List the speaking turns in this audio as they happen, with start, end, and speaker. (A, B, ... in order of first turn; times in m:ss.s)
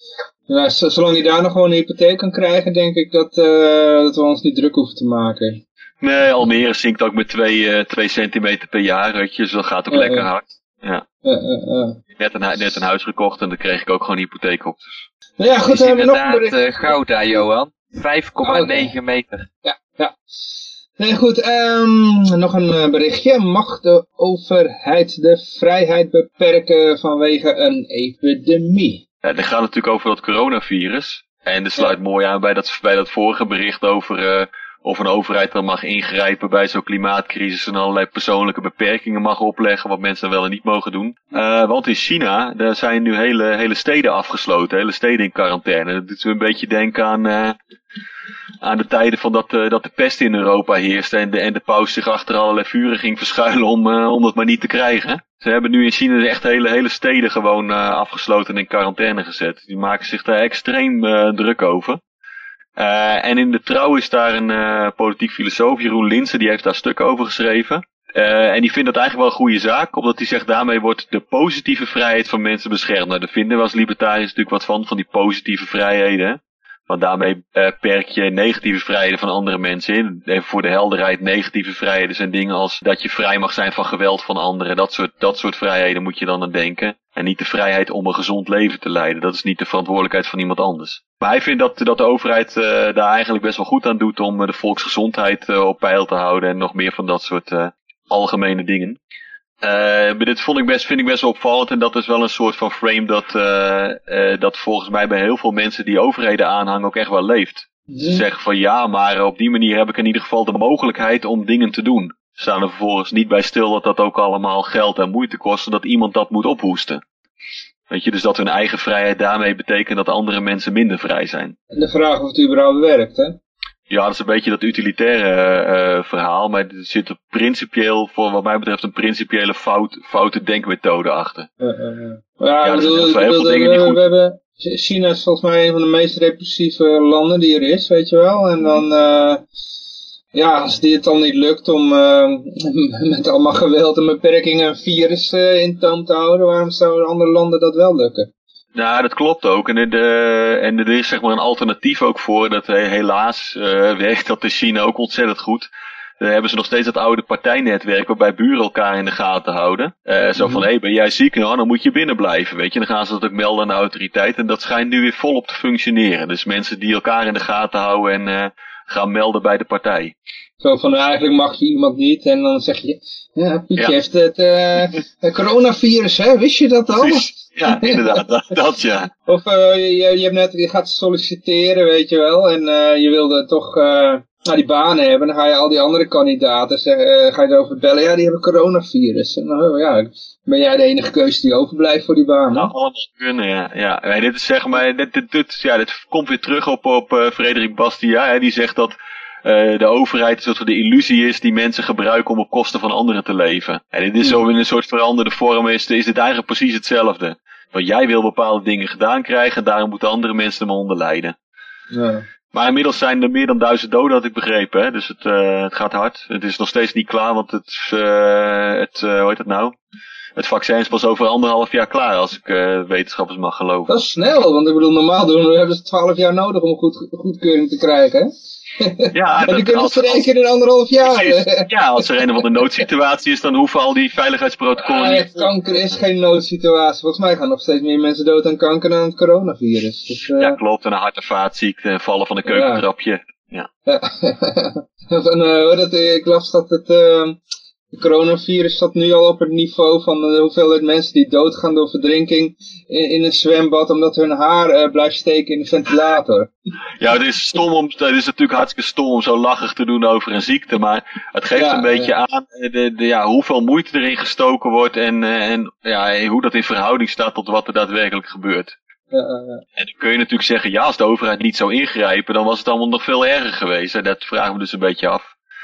0:00.5-0:05.6 A
0:06.0-0:11.0 B
0:09.9-0:10.3 A
0:11.2-0:12.0 A
0:12.2-0:15.0 B
0:15.4-0:17.0 A
0:15.6-0:19.5 C
0:18.4-0:18.9 A
0:19.6-0:20.2 A
0:21.0-0:29.0 A
0:29.2-0:47.6 B
0:48.6-1:02.0 B
1:02.8-1:39.0 B
1:39.6-1:57.0 B
1:47.9-1:48.2 A
1:57.9-2:01.6 B
2:01.7-2:03.4 A
2:03.9-2:11.5 B
2:11.6-2:19.4 A
2:12.6-2:14.0 B
2:20.3-2:28.3 A
2:28.8-2:35.7 B
2:36.2-2:50.1 B
2:40.4-2:40.7 A
2:50.6-2:58.2 A
2:57.0-2:59.1 B
2:59.3-3:12.7 A
3:12.5-3:31.4 B
3:31.9-3:32.2 A
3:32.5-3:39.8 B
3:40.4-3:43.9 B
3:43.9-3:52.0 A
3:49.1-3:50.2 B
3:51.0-3:55.5 B
3:54.8-4:00.6 A
4:00.4-4:03.7 B
4:02.5-4:02.8 A
4:03.9-4:07.4 A
4:07.9-4:16.5 A
4:17.0-4:28.7 B
4:21.6-4:22.1 A
4:29.1-4:29.6 A
4:29.8-4:35.3 B